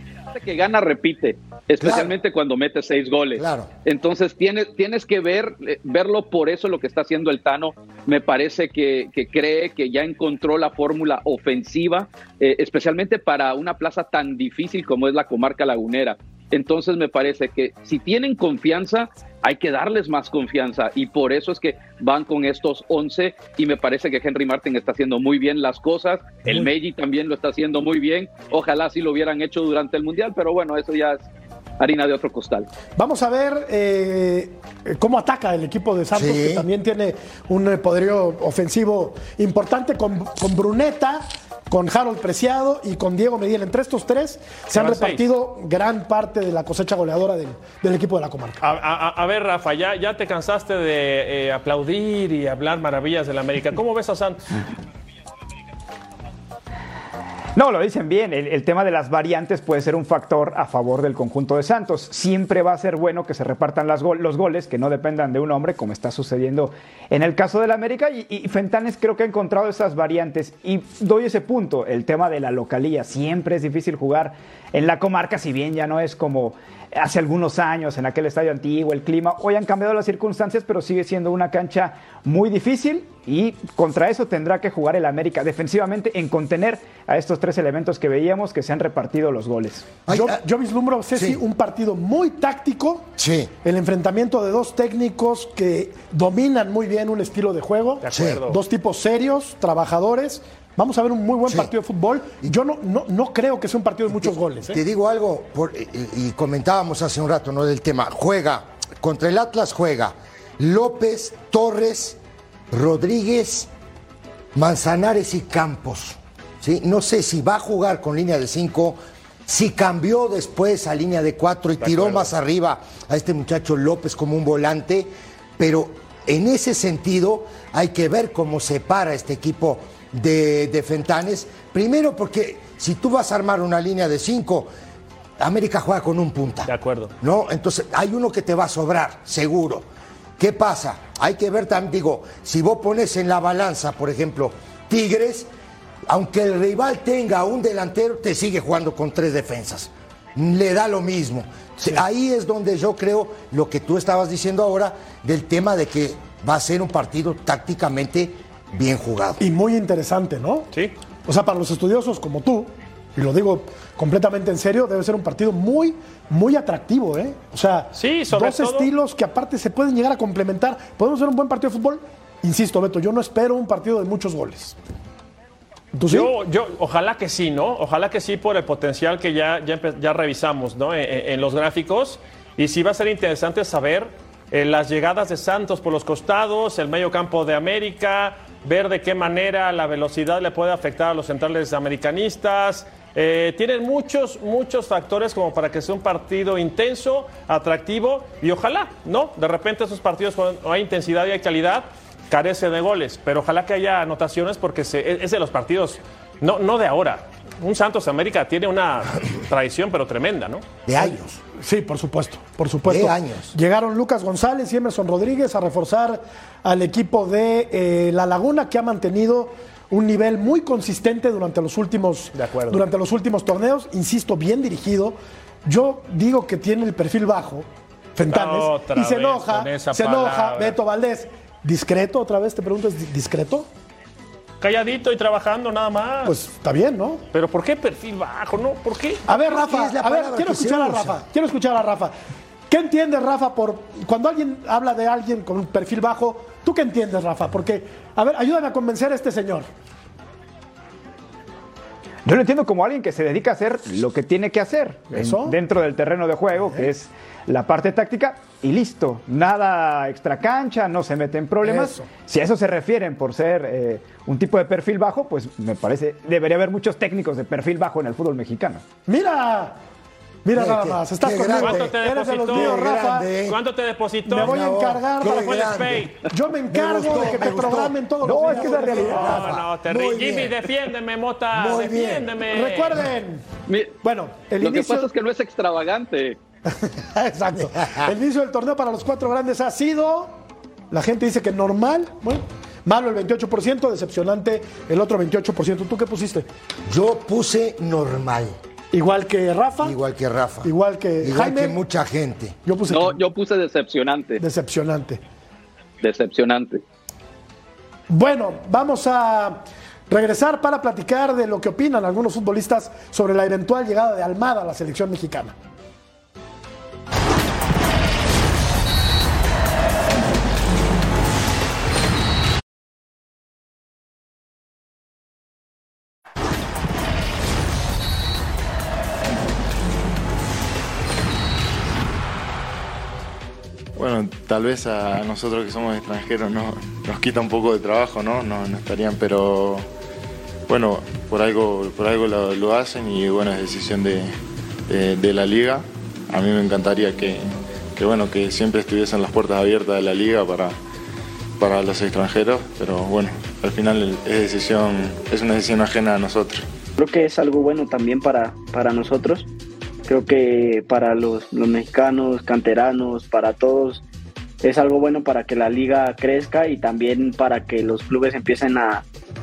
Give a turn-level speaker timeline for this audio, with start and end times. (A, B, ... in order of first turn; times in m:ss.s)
0:00.3-0:31.3 A
0:01.8-0:02.1 B
0:03.4-0:03.7 B
0:31.8-0:32.7 A
0:32.9-0:48.6 C
0:36.1-0:36.6 B
0:44.7-0:45.3 D
0:48.6-0:54.6 D
0:57.6-1:29.9 E
1:30.0-1:30.4 B
1:30.1-1:33.1 C
1:31.1-1:31.4 B
1:33.2-1:33.5 B
1:33.6-1:44.8 C
1:38.0-1:38.6 D
1:38.1-1:38.4 B
1:41.5-1:41.7 B
1:44.3-1:52.2 B
1:52.7-1:53.7 B
1:54.5-2:14.7 B
2:01.8-2:02.3 D
2:15.4-2:19.9 B
2:16.7-2:17.1 D
2:20.4-2:25.5 B
2:26.1-2:39.4 B
2:39.4-2:40.7 C
2:41.2-2:54.8 C
2:47.9-2:48.9 D
2:55.9-2:56.3 C
2:56.1-3:30.6 D
3:30.8-3:31.4 B
3:31.0-3:53.6 C
3:32.8-3:33.6 B
3:42.3-3:42.8 D
3:48.3-3:50.8 D
3:54.6-3:56.4 D
3:56.2-3:57.2 C
3:57.3-3:59.3 D
3:59.3-4:02.1 C
3:59.4-4:01.2 B
4:02.7-4:09.7 C
4:12.2-4:28.8 E
4:15.1-4:15.6 C
4:21.6-4:22.1 C
4:29.1-4:29.8 C
4:30.4-4:33.3 C
4:30.6-4:31.9 B
4:31.5-4:34.6 D
4:32.5-4:33.6 B
4:34.3-4:35.7 C
4:34.3-4:36.1 B
4:35.2-4:36.2 D
4:36.2-4:39.5 C
4:36.7-4:40.7 B
4:38.4-4:43.0 D
4:41.5-4:42.4 B
4:42.5-4:43.4 C
4:43.7-4:44.0 A
4:44.0-4:45.1 C
4:44.6-4:46.4 A
4:46.7-4:50.3 C
4:47.8-4:48.1 B
4:50.9-4:56.5 C
4:56.8-4:58.6 B
4:58.9-4:59.9 C
4:59.8-5:02.6 B
5:00.6-5:01.8 C
5:02.6-5:03.2 C
5:02.9-5:04.4 A
5:04.4-5:05.2 C
5:06.0-5:06.8 A
5:08.1-5:09.6 C
5:10.1-5:15.5 C
5:34.0-5:39.8 F
5:40.7-5:44.3 F
5:44.9-5:50.8 F
5:51.6-5:56.7 F
5:57.0-5:59.5 G
6:00.1-6:04.0 G
6:04.6-6:09.0 G